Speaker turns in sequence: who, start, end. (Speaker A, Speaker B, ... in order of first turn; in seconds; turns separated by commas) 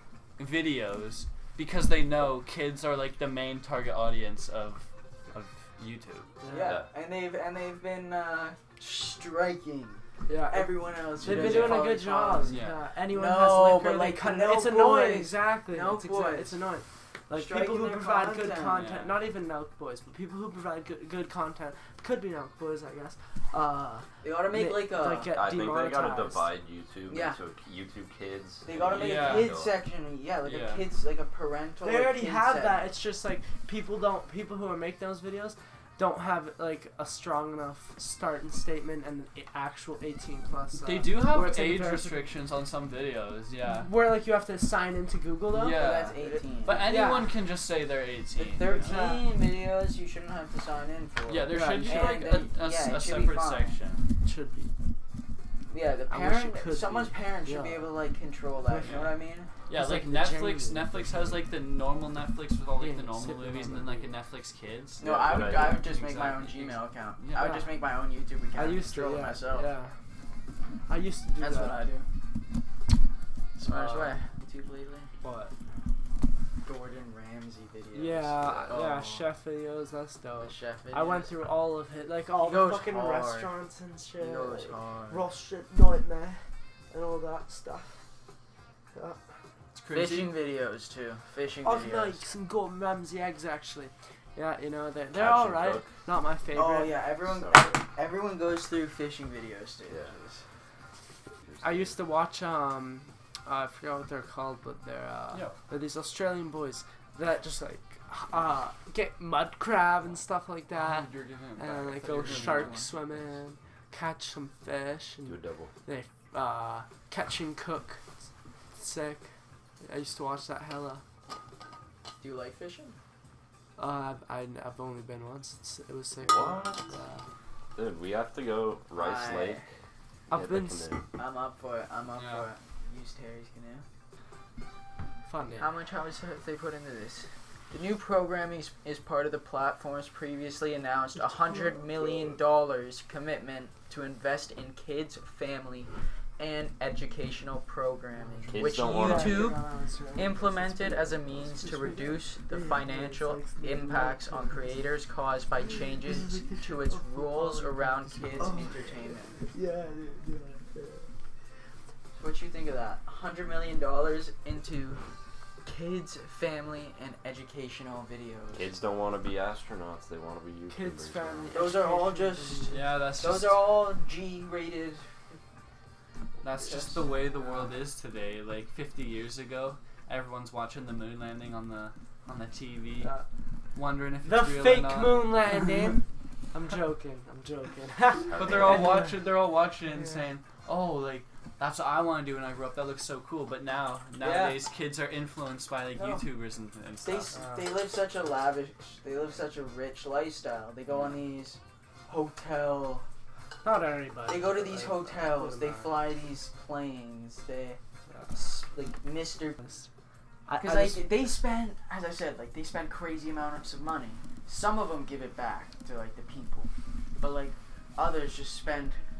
Speaker A: 0.4-6.3, Speaker B: 6.4-6.8, Speaker C: 6.5-16.6, Speaker D: 6.6-6.9, Speaker B: 10.3-26.5, Speaker A: 11.2-11.9, Speaker A: 12.4-12.8, Speaker C: 17.3-18.8, Speaker A: 18.7-19.2, Speaker C: 24.2-25.3, Speaker D: 25.3-29.7, Speaker C: 27.1-27.4, Speaker C: 28.6-32.9, Speaker A: 28.9-29.6, Speaker A: 30.4-30.8, Speaker B: 31.8-42.2, Speaker A: 40.7-43.9, Speaker B: 43.6-47.3, Speaker A: 45.5-49.0, Speaker C: 45.7-47.0, Speaker C: 48.4-53.8, Speaker B: 48.7-49.3, Speaker A: 51.3-54.0, Speaker B: 51.5-52.2, Speaker B: 54.2-54.7, Speaker C: 55.7-59.5, Speaker B: 56.1-57.9, Speaker B: 58.7-59.0, Speaker A: 58.8-59.2, Speaker A: 59.7-67.6, Speaker B: 59.7-61.5, Speaker B: 62.8-64.1, Speaker D: 65.0-65.8, Speaker C: 65.0-69.7, Speaker B: 67.3-67.7, Speaker B: 68.5-69.9, Speaker B: 70.9-71.8, Speaker C: 71.4-72.0, Speaker C: 73.6-75.1, Speaker B: 73.7-74.1, Speaker B: 75.2-75.5, Speaker C: 76.6-79.3, Speaker B: 77.9-88.0, Speaker C: 80.4-81.3, Speaker C: 82.4-83.5, Speaker C: 84.2-85.2, Speaker B: 88.9-89.2, Speaker A: 89.7-90.3, Speaker C: 89.9-92.2, Speaker B: 91.6-97.0, Speaker D: 95.1-95.9, Speaker C: 96.5-100.4, Speaker D: 97.2-97.8, Speaker D: 99.9-100.1, Speaker D: 101.4-102.0, Speaker B: 101.6-118.0, Speaker A: 105.3-105.6, Speaker A: 110.7-113.0, Speaker C: 112.1-112.9, Speaker D: 115.2-115.7, Speaker B: 118.7-119.3, Speaker B: 119.8-121.0, Speaker C: 122.2-123.0, Speaker B: 123.8-127.2, Speaker D: 126.2-127.0, Speaker D: 127.7-129.7, Speaker C: 128.9-129.7, Speaker B: 130.3-130.9, Speaker D: 130.3-131.0, Speaker C: 131.2-133.8, Speaker A: 132.2-132.4, Speaker B: 135.2-135.7, Speaker C: 135.6-149.6, Speaker B: 141.4-141.8, Speaker B: 148.2-154.8, Speaker D: 148.5-149.6, Speaker C: 150.1-159.4, Speaker B: 155.6-161.1, Speaker C: 162.2-165.0, Speaker C: 165.6-168.7, Speaker D: 168.5-171.7, Speaker B: 170.7-172.8, Speaker C: 171.5-175.1, Speaker A: 172.7-173.6, Speaker A: 176.4-183.1, Speaker C: 176.6-177.7, Speaker B: 183.0-183.2, Speaker A: 183.7-185.6, Speaker B: 184.2-189.3, Speaker D: 188.2-189.1, Speaker A: 188.3-197.4, Speaker B: 189.9-190.2, Speaker C: 194.2-194.6, Speaker C: 195.9-196.2, Speaker C: 197.0-203.0, Speaker B: 197.3-197.7, Speaker B: 203.6-206.0, Speaker C: 204.3-207.8, Speaker C: 208.3-209.6, Speaker B: 209.6-209.9, Speaker B: 210.5-211.1, Speaker C: 210.6-219.0